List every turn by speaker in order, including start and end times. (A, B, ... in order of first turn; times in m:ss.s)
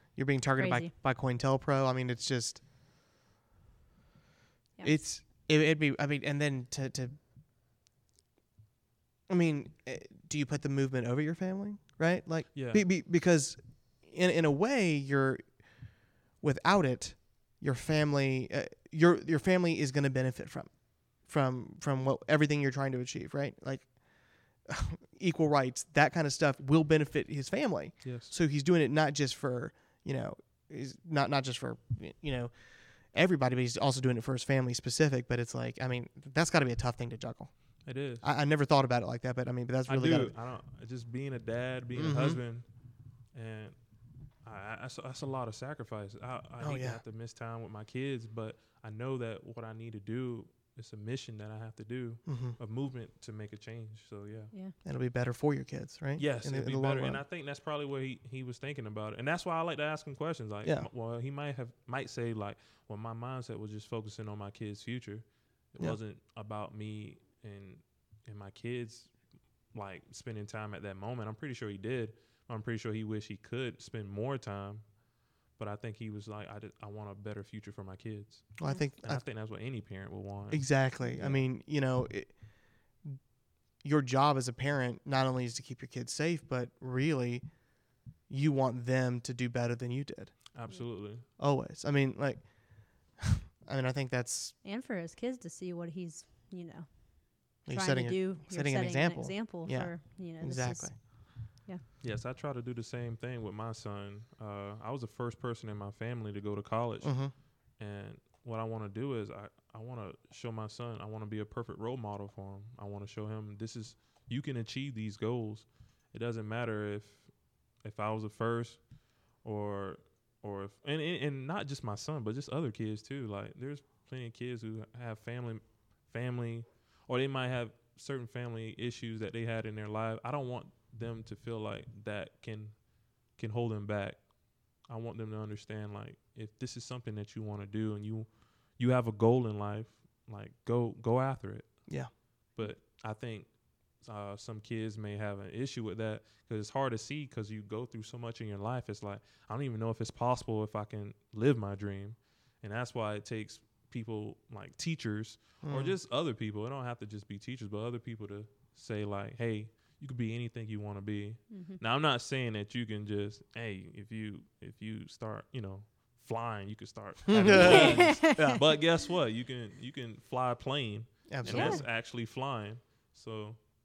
0:00.2-0:02.6 A
0:00.6-0:00.9 B
0:04.8-0:07.2 A
0:09.3-0:15.6 A
0:12.5-0:12.8 C
0:16.4-0:32.5 A
0:28.0-0:28.3 C
0:33.1-0:37.5 A
0:37.8-0:38.2 C
0:38.2-0:40.3 A
0:39.9-0:42.6 C
0:42.0-0:42.4 A
0:43.3-0:43.8 C
0:44.4-0:54.5 C
0:46.6-0:47.0 A
0:52.3-0:52.6 A
0:54.8-0:57.2 A
0:56.2-1:09.1 C
1:09.7-1:14.8 C
1:15.6-1:20.7 C
1:18.6-1:19.2 A
1:20.5-1:22.5 A
1:21.1-1:21.4 B
1:23.8-1:27.5 A
1:28.3-1:30.3 A
1:30.5-1:31.2 C
1:31.4-1:34.6 A
1:34.6-1:41.8 B
1:37.7-1:41.0 A
1:42.0-1:47.2 C
1:47.0-1:47.3 A
1:47.8-1:57.3 C
1:57.8-1:58.8 C
1:59.4-2:12.8 C
2:13.3-2:21.9 C
2:22.5-2:23.5 C
2:24.0-2:53.6 C
2:35.6-2:36.0 A
2:41.5-2:41.8 B
2:47.3-2:48.6 A
2:47.5-2:48.6 B
2:51.3-2:51.8 A
2:51.4-2:51.8 B